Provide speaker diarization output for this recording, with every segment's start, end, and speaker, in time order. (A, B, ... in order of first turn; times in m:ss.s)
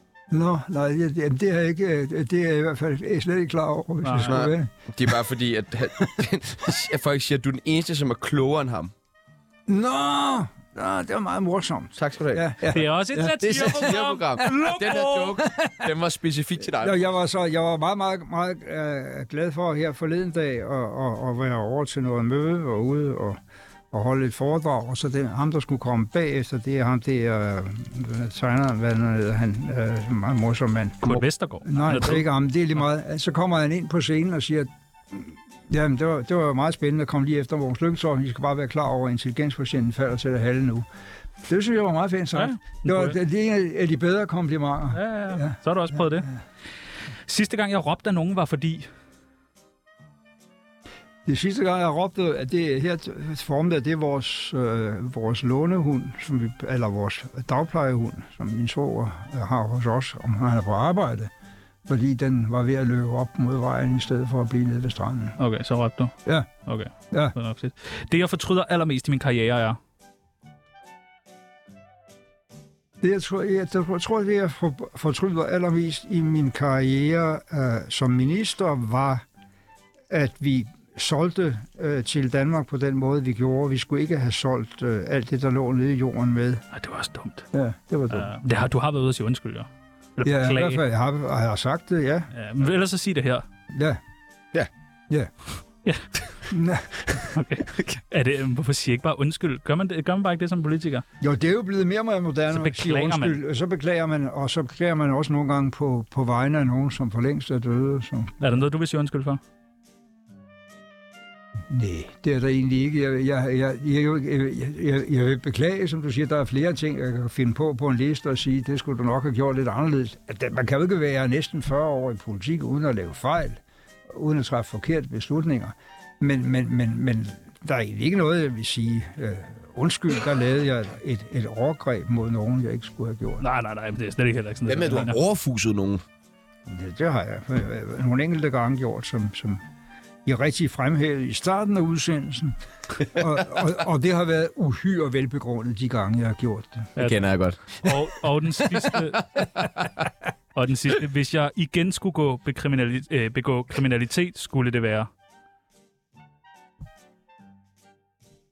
0:00.3-0:05.2 A
0:04.0-0:04.4 B
0:04.2-0:08.9 C
0:09.7-0:15.9 A
0:12.0-0:12.7 C
0:12.7-0:15.4 B
0:13.4-0:17.0 C
0:16.8-0:23.4 A
0:23.9-0:40.9 A
0:31.0-0:32.3 B
0:41.4-0:46.3 A
0:42.4-0:43.2 B
0:44.9-0:46.3 B
0:47.3-0:48.9 B
0:51.2-1:01.3 A
1:01.9-1:05.4 A
1:05.4-1:09.8 B
1:13.0-1:19.2 A
1:20.1-1:26.6 A
1:26.7-1:27.5 B
1:27.5-1:28.3 A
1:28.1-1:30.8 B
1:30.2-1:32.3 A
1:32.3-1:33.4 B
1:33.7-1:34.0 A
1:36.5-1:37.0 A
1:37.2-1:41.0 B
1:41.2-1:48.4 A
1:42.5-1:43.4 B
1:48.4-1:49.4 B
1:51.7-2:13.4 A
2:13.4-2:15.2 B
2:14.7-2:16.0 C
2:16.7-2:19.6 A
2:20.2-2:27.0 A
2:27.0-2:27.2 B
2:27.0-2:27.8 C
2:27.8-2:29.5 B
2:30.6-2:35.1 B